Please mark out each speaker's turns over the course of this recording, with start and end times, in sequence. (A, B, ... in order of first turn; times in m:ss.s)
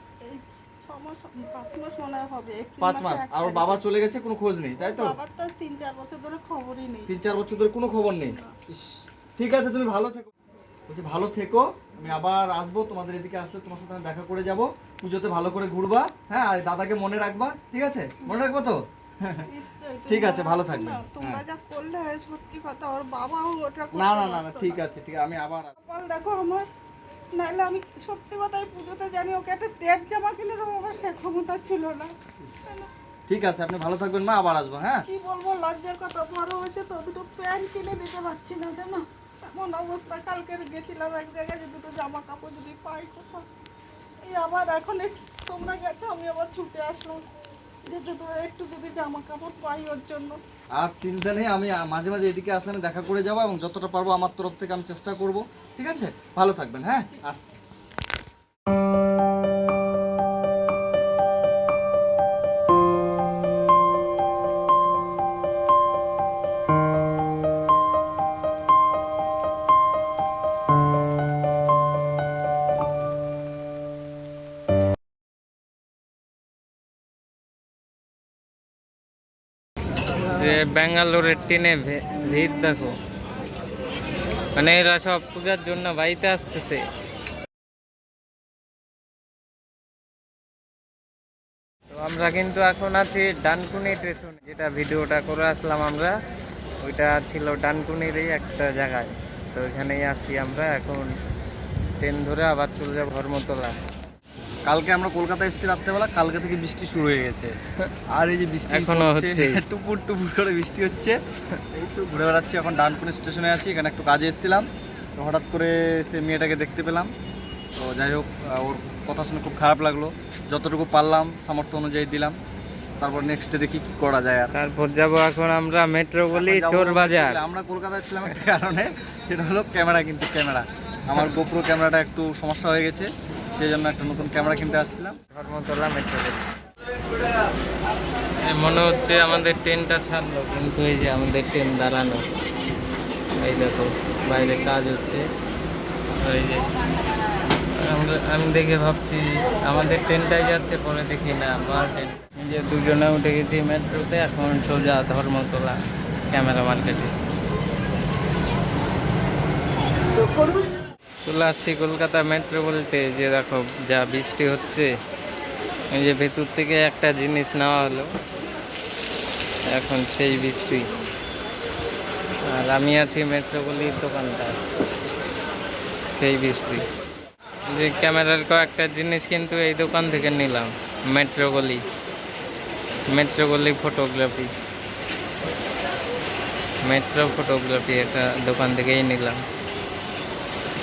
0:00.2-0:03.8 A
0:02.8-0:05.2 B
0:04.8-0:07.1 A
0:07.1-0:10.3 B
0:08.3-0:08.6 A
0:10.9-0:19.5 B
0:18.2-0:18.6 A
0:19.5-0:24.8 A
0:20.1-0:21.4 B
0:23.9-0:25.8 B
0:25.8-0:26.7 A
0:27.4-0:32.1 A
0:32.7-0:32.9 A
0:33.3-0:35.1 B
0:35.1-0:43.5 A
0:44.2-0:47.2 A
0:47.9-0:50.4 A
0:50.8-0:57.5 B
1:20.3-1:22.9 C
1:24.6-1:26.8 C
1:31.9-1:36.1 C
1:36.8-1:41.1 C
1:42.0-1:43.8 C
1:44.7-1:47.6 B
1:48.1-1:57.1 B
1:48.7-1:49.6 C
1:57.8-2:02.4 B
2:03.0-2:04.6 B
2:04.5-2:07.4 C
2:06.3-2:15.2 B
2:15.3-2:16.4 C
2:18.4-2:22.2 C
2:23.4-2:25.2 C
2:26.2-2:26.7 C
2:27.8-2:35.8 C
2:36.3-2:37.1 C
2:41.2-2:44.9 C
2:45.9-2:48.1 C
2:49.7-2:50.9 C
2:52.5-2:54.6 C
2:56.1-2:56.8 C
2:57.7-3:01.8 C
3:03.1-3:04.5 C
3:06.9-3:09.4 C